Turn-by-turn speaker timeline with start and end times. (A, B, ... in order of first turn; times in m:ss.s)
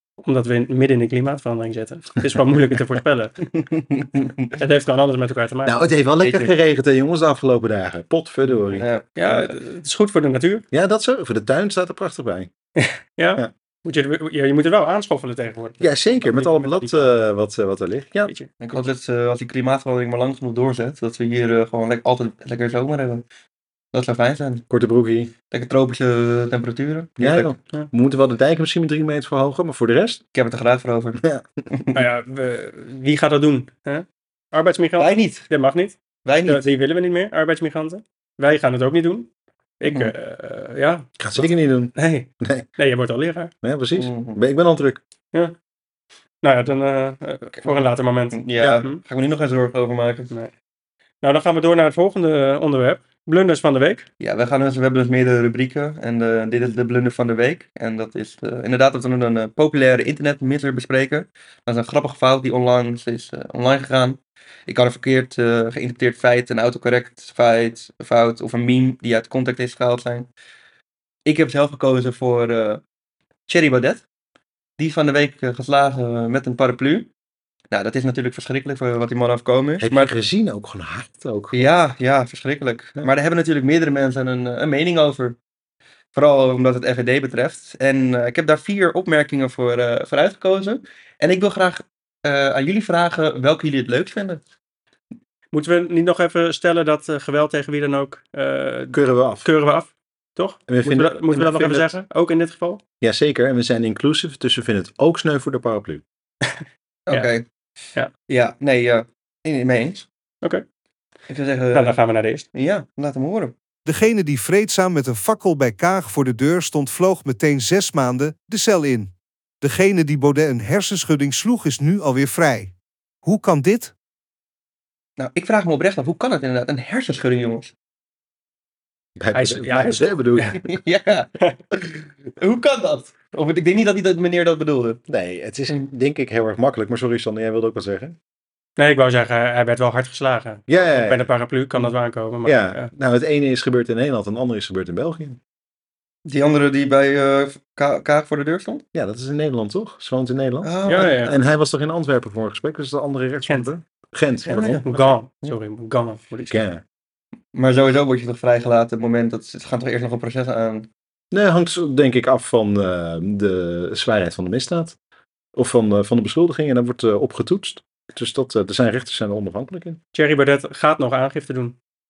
0:00.2-0:03.4 A
0:03.6-0:04.5 B
0:04.6-0:05.8 A
0:05.6-0:08.9 C
0:06.2-0:06.5 B
0:08.7-0:09.6 B
0:09.2-0:10.6 A
0:10.7-0:12.5 C
0:12.8-0:17.2 A
0:15.8-0:18.3 C
0:18.6-0:23.2 B
0:23.9-0:24.6 B
0:24.7-0:25.3 C
0:25.5-0:27.5 B
0:27.2-0:30.2 C
0:30.4-0:31.2 B
0:31.2-0:31.5 C
0:31.7-0:32.0 B
0:31.9-0:39.3 A
0:35.0-0:35.5 B
0:36.2-0:36.6 B
0:39.8-0:43.5 A
0:39.9-0:40.1 B
0:41.2-0:42.7 C
0:43.6-0:45.0 C
0:44.0-0:44.4 B
0:46.4-0:49.0 A
0:48.3-0:50.3 B
0:51.2-0:54.1 A
0:54.2-1:10.3 B
1:11.3-1:12.8 B
1:13.5-1:14.0 B
1:14.8-1:17.1 B
1:17.7-1:20.1 B
1:19.8-1:21.7 C
1:21.5-1:25.4 B
1:26.2-1:34.4 B
1:35.5-1:42.8 A
1:38.9-1:39.5 C
1:40.7-1:41.9 C
1:43.0-1:46.0 C
1:47.1-1:47.4 B
1:48.3-1:50.1 B
1:51.3-1:52.0 B
1:51.7-1:52.5 A
1:52.5-1:53.5 B
1:53.9-2:02.7 D
2:03.2-2:03.9 D
2:05.2-2:07.7 B
2:09.2-2:10.7 C
2:09.3-2:10.6 A
2:10.6-2:15.0 B
2:15.1-2:18.2 C
2:18.8-2:22.9 A
2:20.7-2:21.3 C
2:22.4-2:25.4 C
2:26.3-2:28.8 B
2:28.9-2:34.9 C
2:30.6-2:31.2 B
2:30.9-2:31.4 A
2:34.5-2:36.6 A
2:34.6-2:35.6 B
2:36.5-2:36.8 C
2:37.5-2:40.9 B
2:41.3-2:45.0 C
2:45.6-2:50.0 C
2:50.1-2:51.8 A